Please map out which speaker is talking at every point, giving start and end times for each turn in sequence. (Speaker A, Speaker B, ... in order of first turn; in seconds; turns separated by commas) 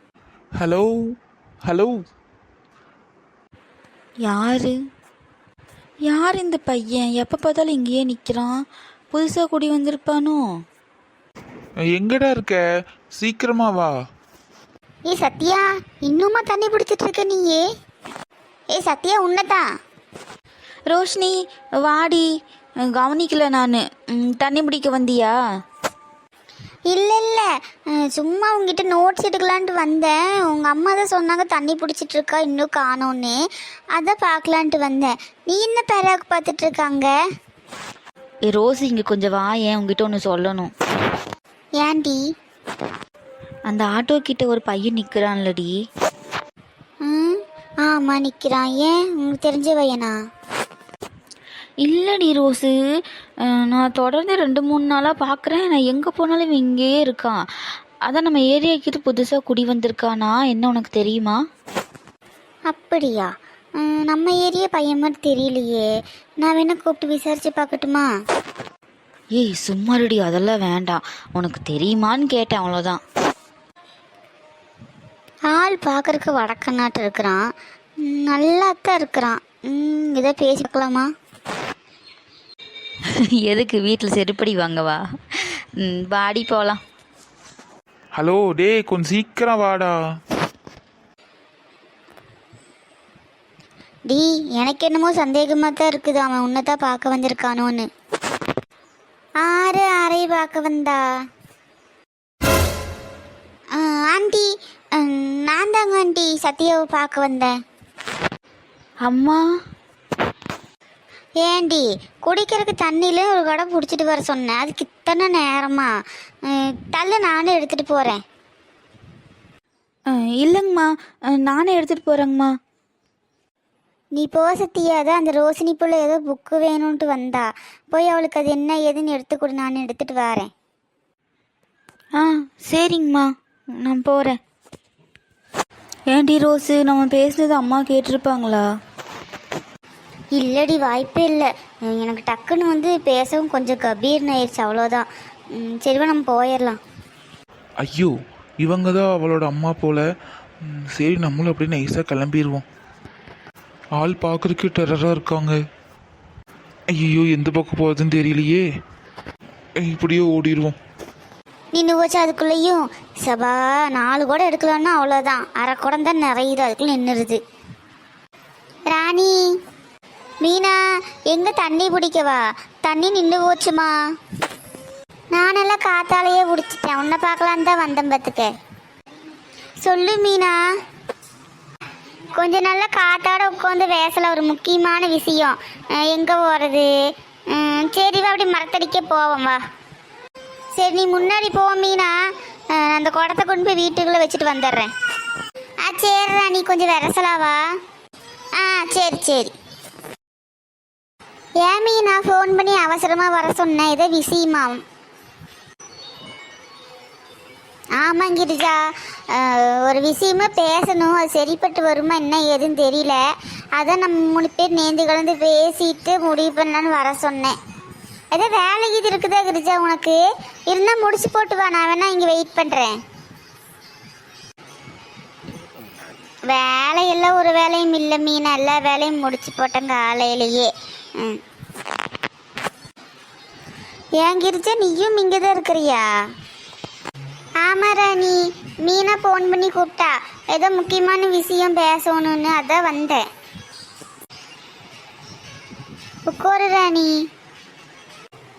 Speaker A: 0.6-0.9, Speaker A: 1.6-1.9, Speaker B: 4.2-4.8, Speaker B: 6.1-8.6, Speaker B: 9.1-10.4, Speaker A: 11.9-12.6, Speaker A: 13.2-13.9, Speaker C: 15.1-17.6, Speaker C: 18.7-19.7, Speaker B: 20.9-22.3, Speaker B: 22.9-25.3, Speaker C: 26.9-33.4, Speaker C: 34.0-37.1, Speaker B: 38.5-40.7, Speaker C: 41.8-42.2, Speaker B: 43.7-45.7, Speaker C: 47.0-50.2, Speaker B: 51.8-52.7, Speaker B: 53.5-57.4, Speaker B: 58.1-61.4, Speaker C: 62.7-65.9, Speaker C: 66.4-68.1, Speaker B: 69.4-73.0, Speaker C: 75.5-77.4, Speaker C: 78.0-81.1, Speaker B: 83.1-86.8, Speaker A: 88.2-90.0, Speaker C: 94.1-97.9, Speaker C: 99.4-101.0, Speaker C: 103.8-107.5, Speaker B: 109.0-109.4, Speaker C: 111.4-115.9, Speaker C: 116.5-118.2, Speaker B: 120.1-122.5, Speaker C: 124.2-130.5, Speaker B: 132.2-134.4, Speaker B: 136.1-138.6, Speaker C: 140.4-146.8, Speaker A: 147.8-150.0, Speaker A: 150.7-152.7, Speaker A: 154.0-155.6, Speaker A: 156.9-158.7, Speaker A: 159.8-160.8, Speaker C: 161.7-167.4, Speaker C: 168.9-169.4, Speaker C: 170.4-173.9, Speaker C: 175.3-178.5, Speaker C: 179.8-180.6, Speaker C: 182.4-186.9, Speaker C: 187.5-189.6, Speaker C: 190.8-192.2, Speaker C: 192.7-194.9, Speaker C: 195.8-197.6, Speaker C: 198.6-199.5, Speaker C: 201.6-204.8, Speaker C: 208.0-213.2, Speaker C: 213.8-217.6, Speaker C: 218.3-222.9, Speaker C: 226.5-231.4, Speaker C: 234.2-236.1, Speaker C: 237.6-243.2, Speaker C: 246.3-247.1